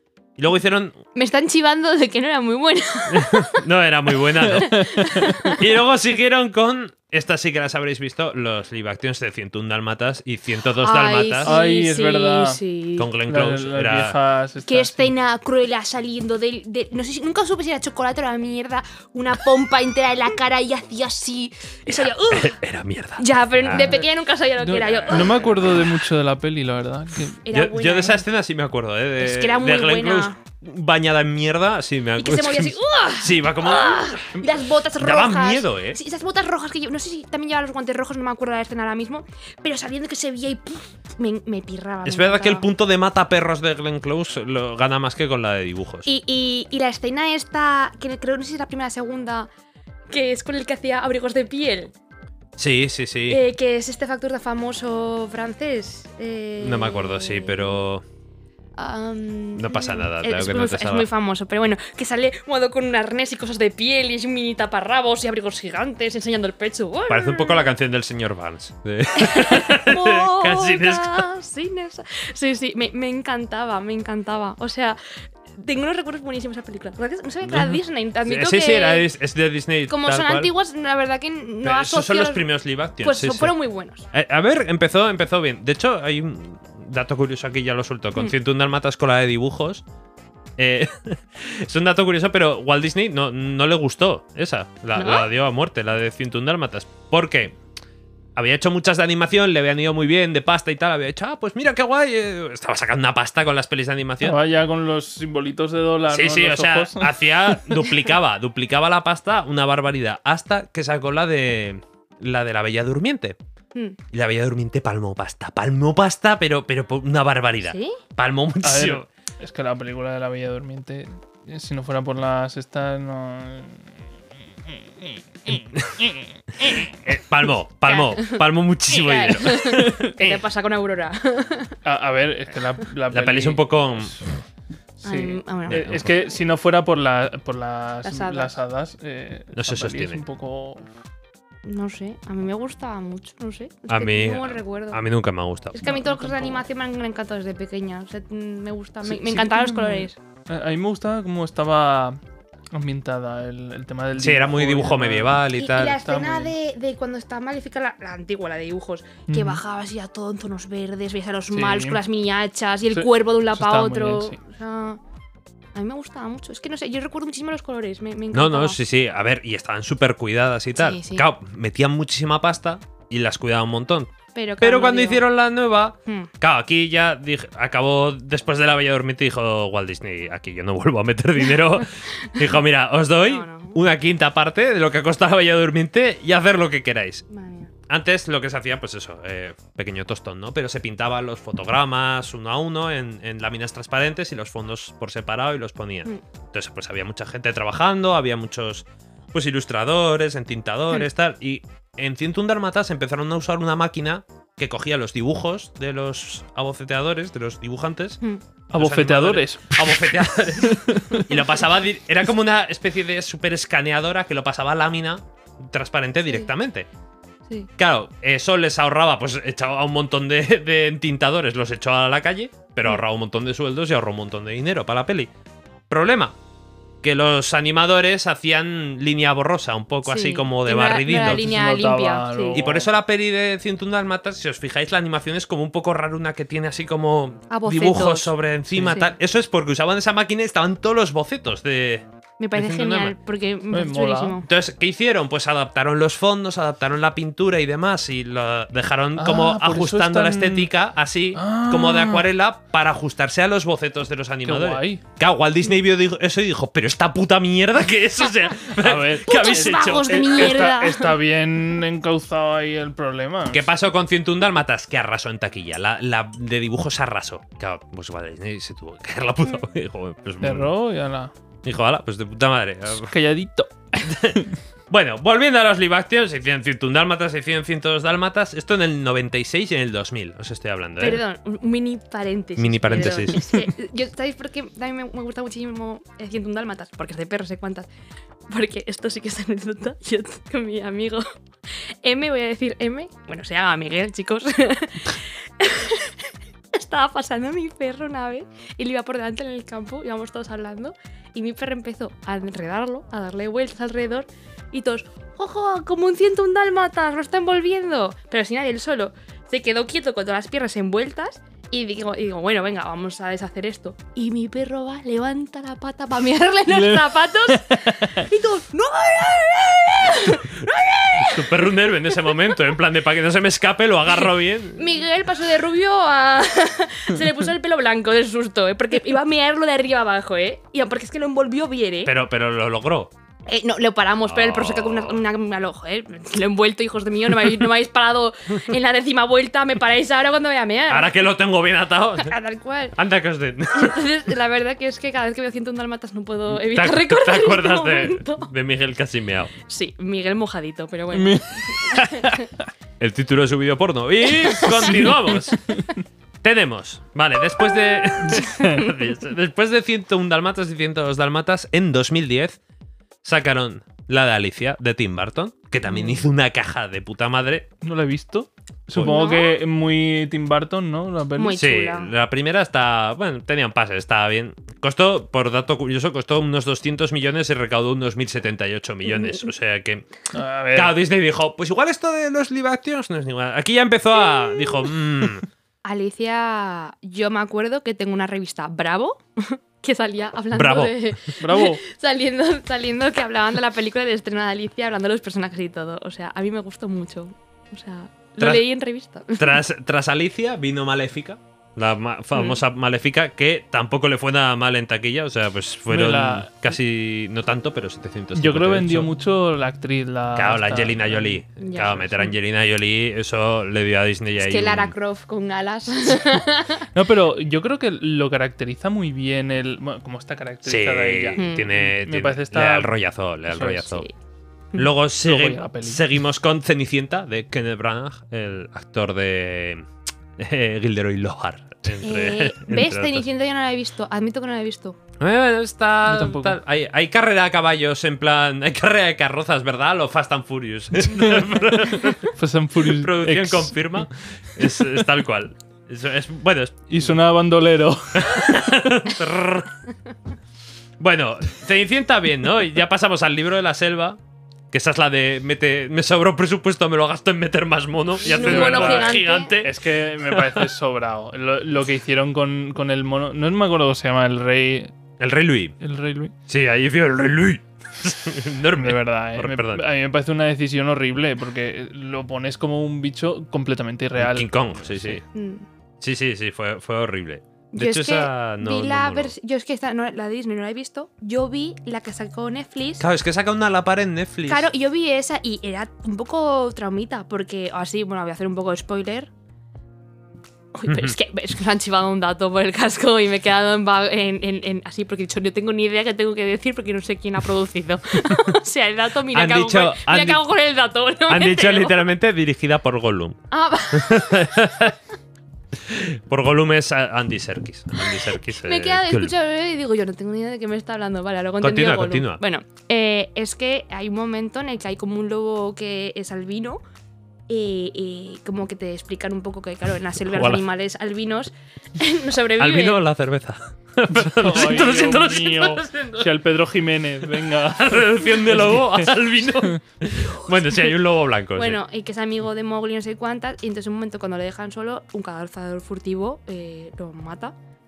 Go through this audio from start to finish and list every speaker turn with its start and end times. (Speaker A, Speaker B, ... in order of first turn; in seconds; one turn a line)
Speaker A: 0.4-1.0
Speaker B: 1.1-3.6
Speaker A: 3.1-11.5
Speaker B: 4.5-5.6
Speaker C: 4.5-5.3
Speaker B: 10.8-13.1
Speaker C: 11.4-12.6
Speaker A: 13.0-14.2
Speaker C: 13.2-15.1
Speaker B: 14.7-22.6
Speaker A: 21.9-23.9
Speaker B: 23.2-25.5
Speaker C: 23.7-24.1
Speaker C: 24.6-27.4
Speaker A: 25.1-25.6
Speaker B: 27.4-28.2
Speaker A: 27.5-36.0
Speaker B: 29.2-30.4
Speaker B: 32.2-42.7
Speaker A: 42.0-46.1
Speaker B: 46.0-49.5
Speaker B: 50.1-51.9
Speaker A: 52.6-53.4
Speaker B: 53.3-57.8
Speaker A: 56.6-58.0
Speaker B: 58.8-67.7
Speaker A: 59.5-61.1
Speaker A: 67.1-71.3
Speaker B: 69.1-75.0
Speaker B: 75.5-79.0
Speaker A: 77.4-80.5
Speaker B: 79.9-82.5
Speaker A: 81.6-83.5
Speaker B: 83.0-84.1
Speaker A: 84.1-89.8
Speaker A: 90.6-97.5
Speaker B: 95.0-95.3
Speaker A: 98.3-104.4
Speaker C: 104.2-107.7
Speaker A: 106.1-113.4
Speaker A: 114.1-119.1
Speaker B: 117.6-118.0
Speaker C: 118.6-123.8
Speaker C: 125.0-126.1
Speaker A: 125.5-126.0
Speaker A: 126.6-130.3
Speaker B: 127.9-131.8
Speaker C: 131.8-133.8
Speaker A: 133.1-134.2
Speaker C: 135.0-140.8
Speaker B: 135.0-136.1
Speaker A: 135.7-136.1
Speaker B: 138.0-138.5
Speaker A: 139.5-140.2
Speaker B: 141.7-145.0
Speaker A: 143.9-145.8
Speaker B: 145.7-150.2
Speaker C: 145.8-146.6
Speaker C: 149.0-152.2
Speaker C: 152.7-156.5
Speaker A: 154.2-156.0
Speaker B: 155.6-165.0
Speaker C: 159.3-159.6
Speaker C: 161.5-162.0
Speaker C: 162.9-164.4
Speaker B: 165.7-168.8
Speaker A: 168.3-187.2
Speaker B: 170.8-171.2
Speaker B: 174.3-175.2
Speaker B: 183.2-183.8
Speaker B: 187.3-187.7
Speaker A: 187.9-208.2
Speaker C: 208.7-211.3
Speaker A: 208.7-216.9
Speaker A: 217.8-225.3
Speaker A: 225.9-226.3
Speaker A: 227.0-231.4
Speaker B: 230.1-232.6
Speaker C: 231.1-232.9
Speaker A: 232.5-243.2
Speaker B: 237.5-238.4
Speaker C: 238.7-239.0
Speaker B: 238.9-239.1
Speaker B: 242.4-244.4
Speaker C: 243.7-244.4
Speaker A: 244.4-260.4
Speaker C: 249.2-250.7
Speaker C: 251.3-252.3
Speaker C: 254.4-255.0
Speaker C: 258.8-263.6
Speaker B: 259.2-261.1
Speaker A: 263.5-270.7
Speaker C: 270.4-271.3
Speaker A: 271.6-273.1
Speaker C: 273.0-274.4
Speaker A: 274.0-281.2
Speaker B: 281.0-287.9
Speaker A: 282.6-283.4
Speaker B: 288.5-322.6
Speaker C: 316.7-318.3
Speaker A: 321.2-325.0
Speaker B: 324.8-332.1
Speaker A: 332.1-333.1
Speaker B: 333.5-341.3
Speaker A: 334.2-335.2
Speaker A: 340.9-342.3
Speaker B: 342.2-342.9
Speaker A: 342.9-344.1
Speaker B: 343.7-348.5
Speaker A: 346.5-349.5
Speaker B: 349.7-352.5
Speaker C: 351.1-351.9
Speaker A: 353.0-355.6
Speaker B: 354.6-355.1
Speaker C: 354.7-355.2
Speaker A: 356.4-362.6
Speaker B: 357.6-359.1
Speaker C: 358.4-358.8
Speaker A: 363.2-367.7
Speaker B: 365.9-366.2
Speaker C: 367.8-371.6
Speaker B: 369.0-369.6
Speaker B: 371.4-372.1
Speaker A: 371.6-380.1
Speaker B: 379.1-379.4
Speaker C: 380.3-380.9
Speaker A: 380.7-385.4
Speaker B: 385.8-399.6
Speaker A: 390.5-391.2
Speaker C: 391.4-391.8
Speaker A: 398.4-398.6
Speaker A: 399.4-409.1
Speaker B: 402.3-402.6
Speaker C: 405.9-406.7
Speaker C: 408.3-411.4
Speaker A: 410.3-414.9
Speaker B: 411.6-412.3
Speaker B: 414.4-416.9
Speaker C: 416.9-422.9
Speaker A: 420.6-424.1
Speaker B: 421.4-421.7
Speaker C: 423.4-424.0
Speaker A: 424.8-429.9
Speaker C: 425.2-426.0
Speaker A: 430.4-433.3
Speaker B: 432.0-435.0
Speaker A: 435.2-447.1
Speaker C: 436.1-436.6
Speaker C: 441.0-444.1
Speaker C: 444.6-445.0
Speaker C: 446.9-448.6
Speaker A: 448.1-449.7
Speaker A: 451.0-454.2
Speaker A: 454.7-459.7
Speaker B: 458.2-459.6
Speaker C: 458.2-464.9
Speaker A: 460.3-460.7
Speaker A: 465.2-465.7
Speaker C: 465.8-466.3
Speaker A: 466.5-469.9
Speaker C: 468.8-475.2
Speaker A: 474.2-475.2
Speaker B: 475.3-475.6
Speaker A: 476.0-479.3
Speaker B: 477.7-483.0
Speaker A: 483.0-484.7
Speaker B: 484.5-489.3
Speaker B: 490.7-502.1
Speaker A: 490.9-491.1
Speaker A: 499.3-500.4
Speaker A: 501.3-504.9
Speaker B: 503.5-504.6
Speaker A: 505.7-509.3
Speaker B: 508.5-516.8
Speaker A: 511.6-512.4
Speaker B: 517.5-523.0
Speaker A: 520.2-520.6
Speaker A: 522.6-526.3
Speaker C: 524.2-529.8
Speaker A: 527.3-531.8
Speaker B: 531.5-537.5